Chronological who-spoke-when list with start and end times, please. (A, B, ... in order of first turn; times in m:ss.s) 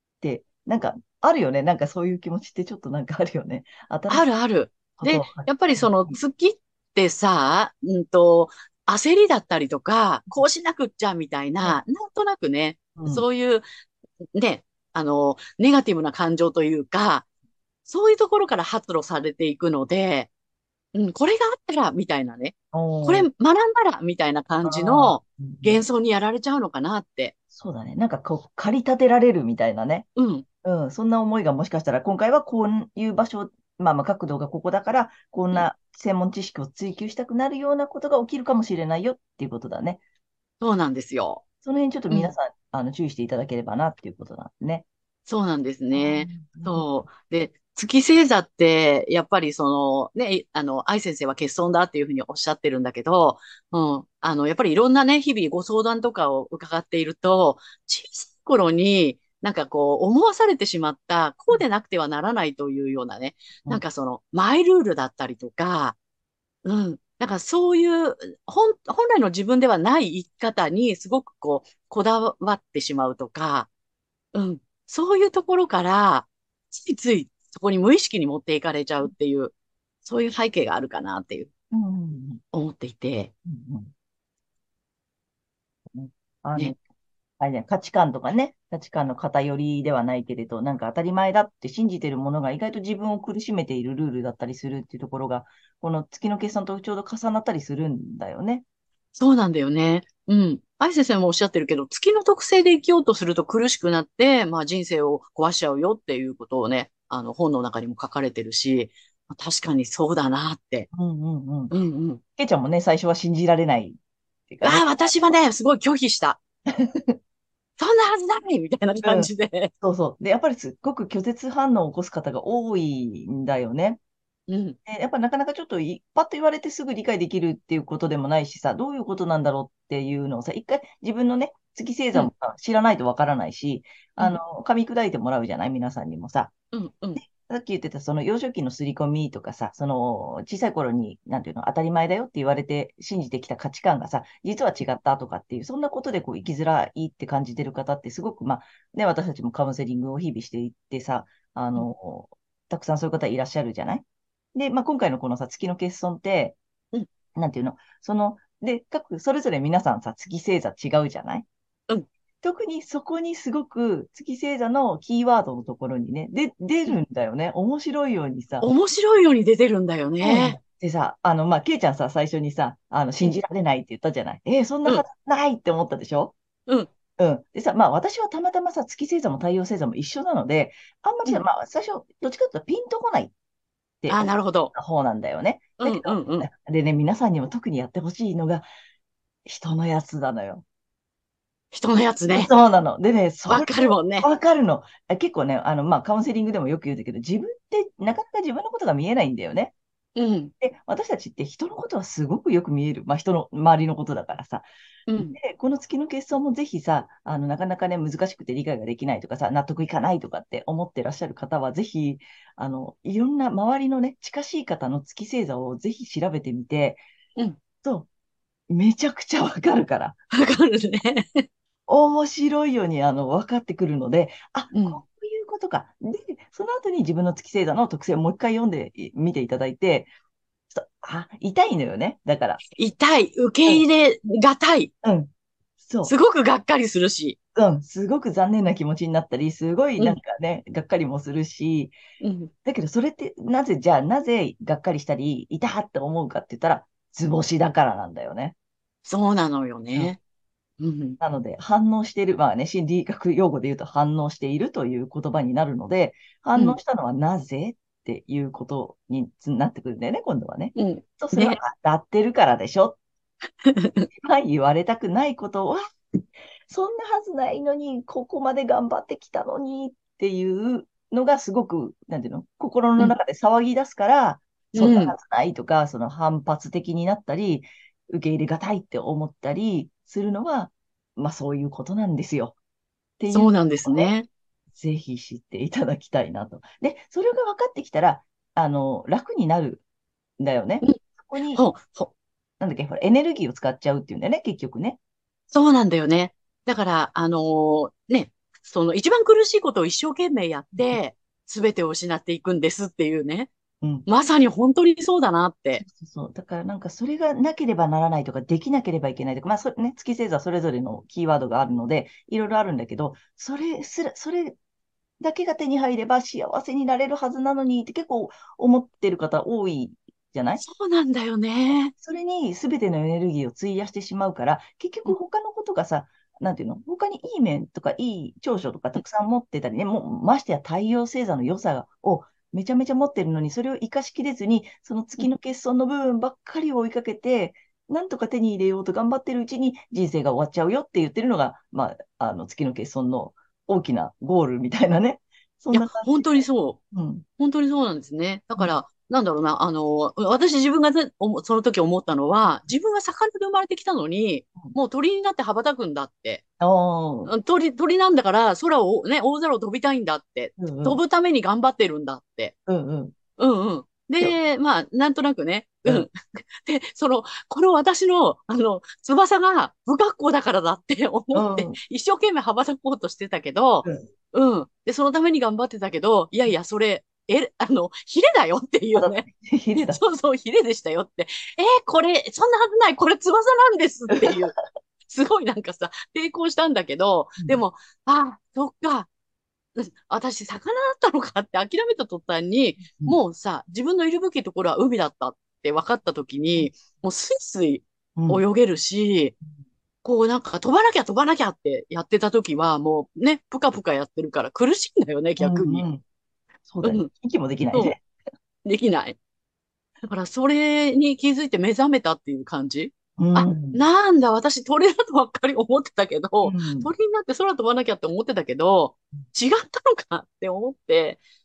0:00.2-0:04.3 A
0:04.1-0:13.6 B
0:05.0-0:06.2 A
0:13.0-0:13.2 A
0:14.3-0:17.2 B
0:17.8-0:20.3 B
0:20.9-0:27.3 B
0:22.7-0:23.3 A
0:24.6-0:25.8 A
0:27.5-0:30.1 A
0:30.2-0:30.4 B
0:30.6-0:40.0 A
0:40.6-0:41.4 B
0:41.6-0:44.8 A
0:45.2-1:06.0 B
0:45.9-0:46.9 A
1:06.6-1:13.7 B
1:14.3-1:19.5 B
1:20.0-1:21.5 B
1:21.7-1:22.4 A
1:22.5-1:23.3 B
1:23.4-1:23.9 A
1:25.9-1:26.8 A
1:27.4-1:38.6 A
1:39.2-1:50.9 B
1:50.9-1:51.7 A
1:51.7-1:52.2 B
1:52.4-1:55.2 A
1:54.6-1:56.4 B
1:56.7-1:57.2 A
1:57.8-1:59.7 B
1:59.0-1:59.3 A
1:59.8-2:04.0 A
2:04.5-2:04.8 B
2:04.9-2:16.5 A
2:16.7-2:17.2 B
2:17.2-2:36.6 A
2:37.3-2:41.5 A
2:42.4-2:48.7 A
2:48.6-2:50.6 B
2:50.2-2:56.4 A
2:57.2-3:03.3 A
3:04.0-3:08.7 A
3:04.1-3:04.7 B
3:05.8-3:06.5 B
3:09.4-3:10.6 A
3:11.7-3:12.5 B
3:12.3-3:19.7 A
3:13.5-3:14.3 B
3:20.2-3:20.5 B
3:20.6-3:24.7 A
3:25.1-3:25.4 B
3:25.3-3:37.0 A
3:37.8-3:38.1 A
3:38.7-3:40.2 A
3:40.3-3:41.4 B
3:41.9-3:50.1 A
3:44.7-3:45.0 B
3:50.7-3:52.6 A
3:52.7-3:54.9 B
3:55.0-3:56.1 A
3:56.0-3:57.4 B
3:57.6-4:01.9 A
4:02.2-4:02.5 B
4:02.6-4:08.5 A
4:09.0-4:10.2 B
4:10.8-4:11.2 B
4:11.2-4:23.0 A
4:20.7-4:21.6 B
4:23.6-4:24.1 B
4:24.1-4:25.8 A
4:26.7-4:42.6 A
4:34.7-4:35.1 B
4:43.2-4:44.1 A
4:43.3-4:44.3 B
4:44.7-4:49.8 A
4:50.4-4:51.6 A
4:51.5-4:52.1 B
4:52.6-4:55.0 A
4:55.5-5:03.5 B
5:03.8-5:04.1 A
5:04.0-5:05.8 B
5:05.8-5:14.6 A
5:15.2-5:20.6 A
5:20.6-5:21.9 B
5:21.9-5:47.2 A
5:45.7-5:46.8 B
5:47.4-5:56.4 B
5:56.6-5:57.3 A
5:57.2-6:02.5 B
6:00.6-6:01.0 A
6:02.7-6:03.1 A
6:03.4-6:19.3 B
6:11.3-6:11.8 A
6:18.9-6:20.0 A
6:19.8-6:24.6 B
6:25.1-6:29.1 B
6:29.8-6:39.4 B
6:38.2-6:38.4 A
6:40.0-6:45.9 B
6:45.4-6:46.0 A
6:46.6-6:48.0 A
6:46.8-6:47.1 B
6:48.6-6:49.2 B
6:50.1-7:01.2 B
6:53.2-6:53.8 A
6:56.4-6:56.9 A